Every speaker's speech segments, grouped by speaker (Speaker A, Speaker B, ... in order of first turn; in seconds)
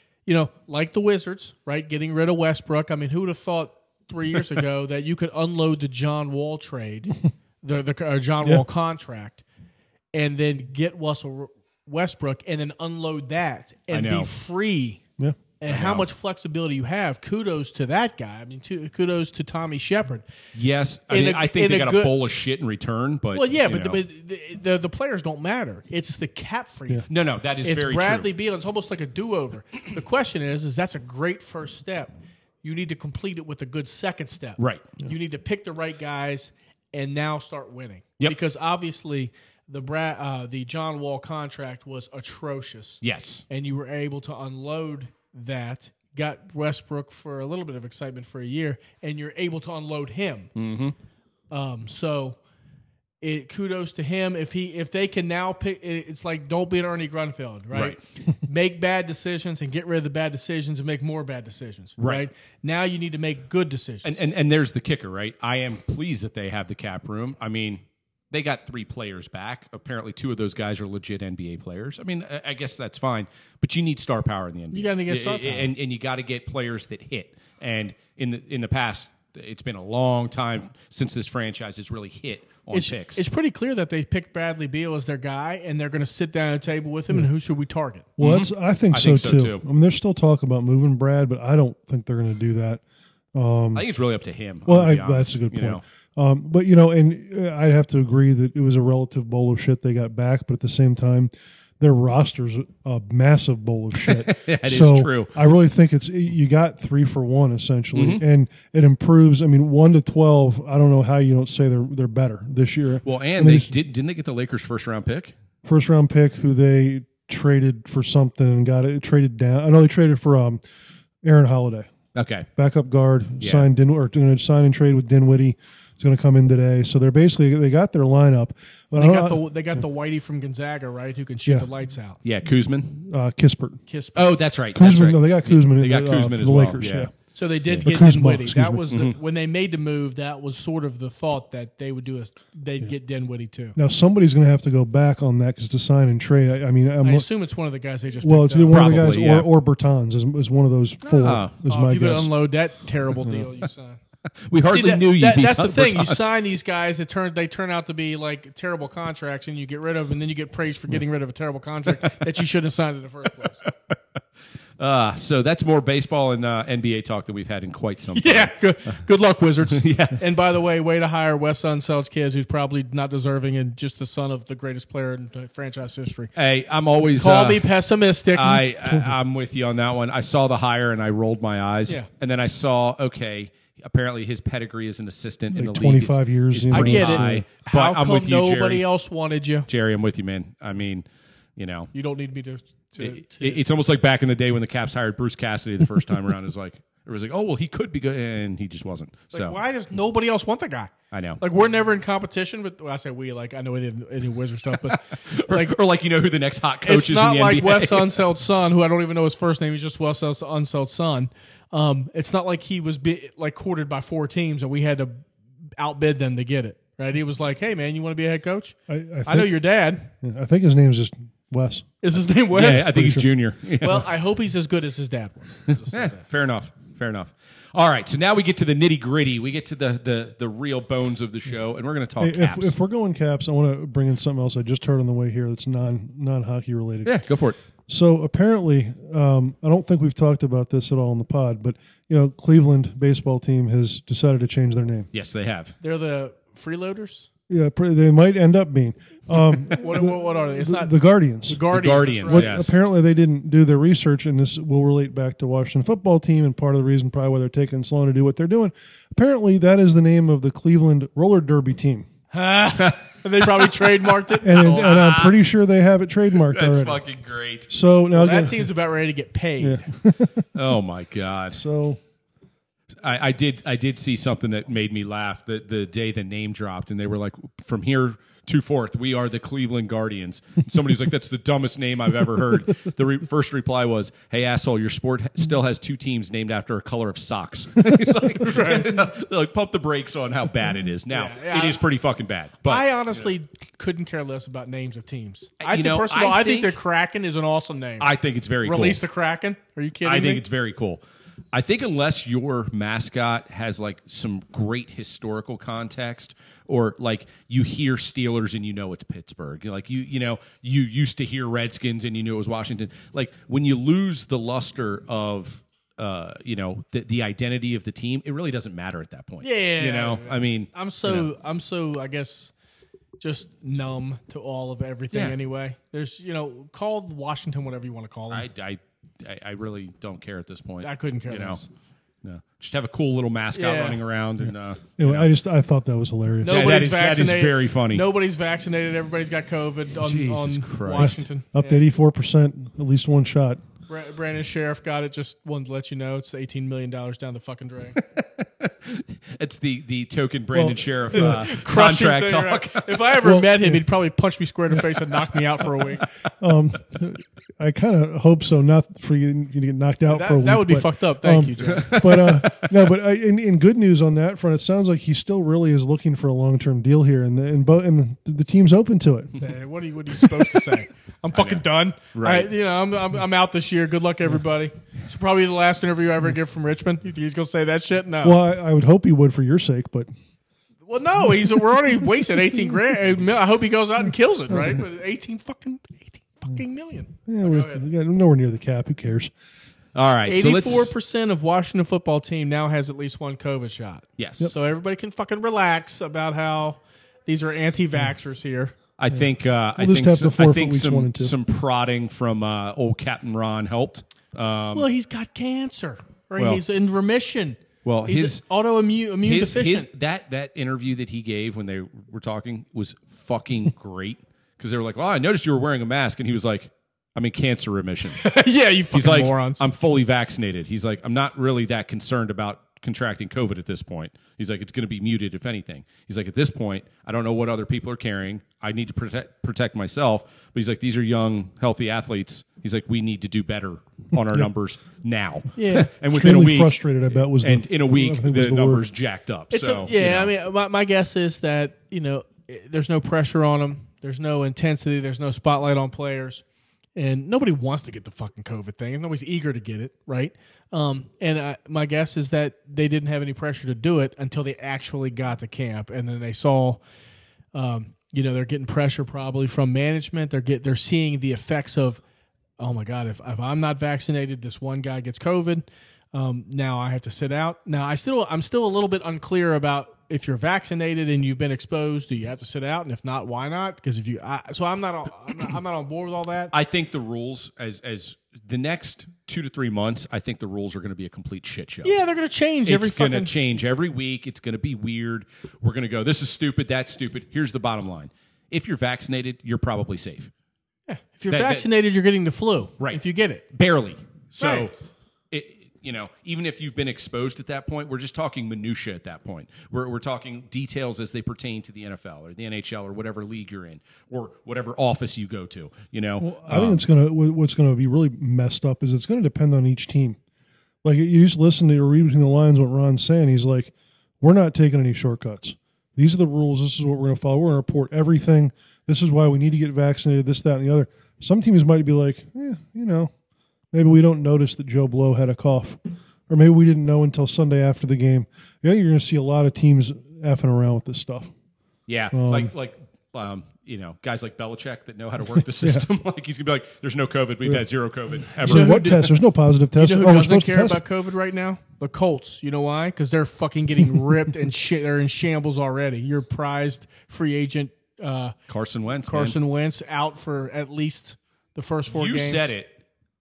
Speaker A: 0.3-9.4, 10.1-15.0, 15.6-20.3, 21.1-22.2, 23.4-27.1, 27.6-32.1, 32.6-50.5, 51.5-52.4, 53.2-64.2, 74.7-75.7, 82.7-88.1, 129.0-132.2, 133.9-134.4, 137.3-143.8, 147.0-149.1, 151.7-154.0, 154.7-163.7, 168.1-176.3, 177.1-178.7, 186.7-189.7, 191.9-193.6, 199.3-205.8, 206.8-215.2, 215.8-220.1, 222.0-222.9, 223.8-226.2, 245.8-247.3, 249.7-252.6, 262.3-265.0, 268.1-269.8, 288.4-289.0, 291.1-291.8, 292.7-300.4, 319.4-322.5, 323.2-328.5, 330.8-331.7, 333.6-334.0, 336.4-341.8, 343.9-348.0, 351.1-356.1, 360.1-362.2, 369.4-378.4, 380.9-387.8, 390.3-398.8, 404.7-409.9, 418.1-419.6, 435.6-435.9, 439.5-446.4, 447.0-456.8, 457.5-462.0, 462.6-476.5, 481.8-483.3, 490.9-493.4, 494.4-494.7, 538.4-539.1, 539.8-548.4, 549.1-552.5
Speaker B: 13.9-14.3, 15.7-16.1, 20.5-24.0, 27.1-28.3, 34.6-34.9, 43.0-43.4, 50.5-50.9, 57.7-58.0, 62.0-62.3, 64.0-83.2, 88.2-89.6, 93.7-95.8, 104.0-105.3, 107.9-108.2, 113.0-115.3, 122.1-122.5, 123.4-123.7, 132.2-133.0, 134.2-137.1, 138.9-139.2, 148.7-149.5, 151.0-151.6, 154.4-156.3, 164.8-169.0, 169.7-170.2, 176.3-177.7, 178.3-188.8, 189.7-191.9, 193.0-199.6, 201.1-201.4, 204.9-208.2, 222.5-224.1, 225.9-232.8, 237.1-237.6, 245.1-245.8, 251.7-252.7, 262.7-265.4, 266.5-267.7, 270.5-271.6, 273.0-293.3, 295.6-296.8, 298.0-299.0, 300.1-301.0, 301.5-321.3, 328.3-331.6, 332.2-335.3, 336.5-338.1, 340.0-341.2, 348.1-353.1, 361.7-362.8, 371.3-372.5, 389.9-390.9, 394.2-394.5, 399.0-404.9, 407.9-408.4, 409.2-418.2, 418.9-440.3, 476.5-481.9, 482.7-490.3, 491.3-491.7, 493.5-494.7, 495.3-506.8, 531.9-538.9, 548.5-549.4, 551.9-552.8
Speaker C: 88.2-92.8, 93.3-93.8, 94.7-113.7, 115.6-120.6, 121.2-121.9, 122.6-129.4, 133.0-133.8, 134.8-137.1, 137.8-138.9, 143.8-147.3, 148.2-152.3, 153.2-153.5, 185.5-187.4, 218.9-219.6, 220.2-221.9, 222.7-223.3, 232.2-237.2, 237.9-245.1, 247.5-262.1, 264.4-267.0, 267.7-268.7, 269.6-270.5, 271.5-272.0, 334.4-336.8, 341.0-343.6, 350.5-351.5, 353.2-353.8, 356.4-369.4, 378.2-380.1, 387.3-389.3, 399.8-401.4, 436.1-438.9, 506.2-510.2, 510.8-523.1, 523.7-531.3, 532.1-532.5, 538.4-540.8